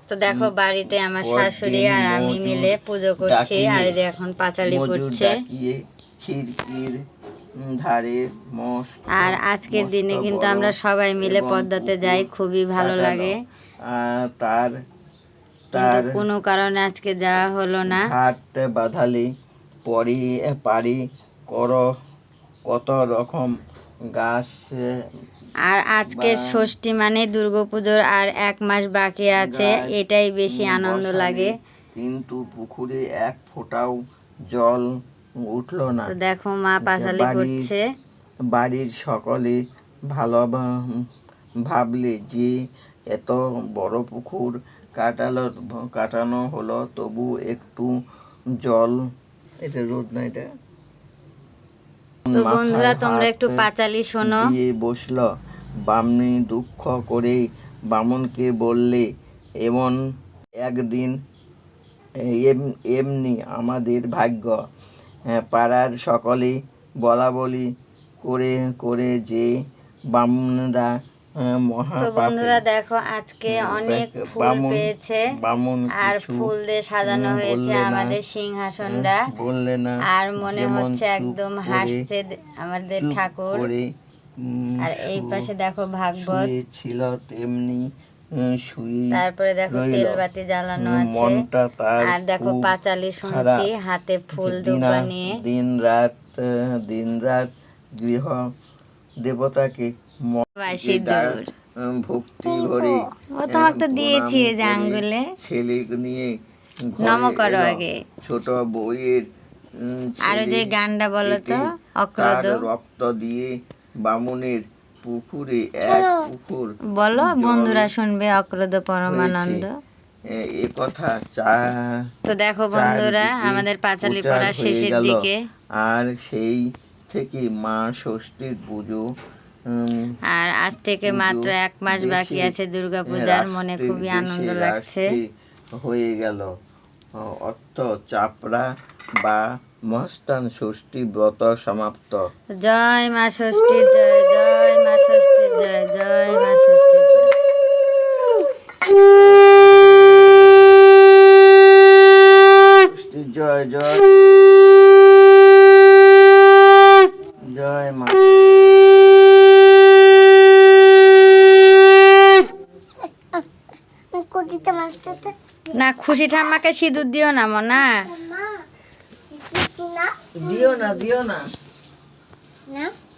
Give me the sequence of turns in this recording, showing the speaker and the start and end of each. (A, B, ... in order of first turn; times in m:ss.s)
0:00.1-0:05.3 A
0:00.2-0:04.0 B
0:04.6-0:07.0 B
0:07.6-0:13.4 B
0:09.2-0:13.3 A
0:13.9-0:14.7 B
0:15.7-0:16.2 B
0:15.7-0:18.0 A
0:17.9-0:19.3 B
0:19.8-0:21.8 B
0:22.7-0:23.6 B
0:24.1-0:24.8 B
0:25.7-0:31.5 A
0:26.1-0:26.6 B
0:29.3-0:30.0 B
0:30.5-0:34.0 B
0:34.5-0:34.9 B
0:35.4-0:36.1 B
0:36.1-0:37.8 A
0:36.8-0:37.7 B
0:38.5-0:41.0 B
0:41.7-0:42.5 B
0:43.1-0:47.9 B
0:48.6-0:49.0 B
0:49.6-0:50.5 B
0:52.3-0:53.6 B
0:52.4-0:54.4 A
0:54.2-0:55.3 B
0:55.8-0:59.1 B
0:59.6-1:00.0 B
1:00.6-1:01.2 B
1:02.3-1:04.6 B
1:05.3-1:07.7 B
1:08.2-1:09.5 B
1:10.1-1:10.9 B
1:11.4-1:12.6 B
1:12.0-1:15.2 A
1:13.5-1:16.5 B
1:16.0-1:19.2 A
1:17.0-1:18.2 B
1:18.9-1:22.0 B
1:20.1-1:23.7 A
1:23.0-1:23.9 B
1:24.4-1:25.4 B
1:24.8-1:26.5 A
1:26.2-1:30.2 B
1:29.2-1:31.4 A
1:30.8-1:32.7 B
1:32.0-1:35.3 A
1:33.2-1:33.7 B
1:34.4-1:38.4 B
1:39.2-1:46.3 B
1:40.6-1:41.5 A
1:42.5-1:43.0 C
1:43.4-1:45.3 A
1:46.9-1:49.2 B
1:47.0-1:48.0 A
1:49.8-1:50.7 B
1:50.3-1:52.6 A
1:51.2-1:51.6 B
1:52.2-1:53.5 B
1:54.0-1:57.9 B
1:55.8-1:56.3 C
1:57.0-1:59.7 A
1:59.0-1:59.6 B
2:00.3-2:01.7 B
2:02.3-2:05.4 A
2:02.7-2:05.2 B
2:05.8-2:09.0 B
2:09.7-2:10.1 B
2:10.3-2:15.1 A
2:11.0-2:12.5 B
2:13.1-2:15.2 B
2:15.8-2:16.5 B
2:17.2-2:18.7 B
2:19.2-2:22.2 B
2:22.6-2:27.3 A
2:32.6-2:34.1 B
2:37.5-2:38.5 B
2:44.1-2:45.7 C
2:45.7-2:48.0 A
2:47.9-2:48.6 C
2:49.3-2:51.1 C
2:50.4-2:51.4 B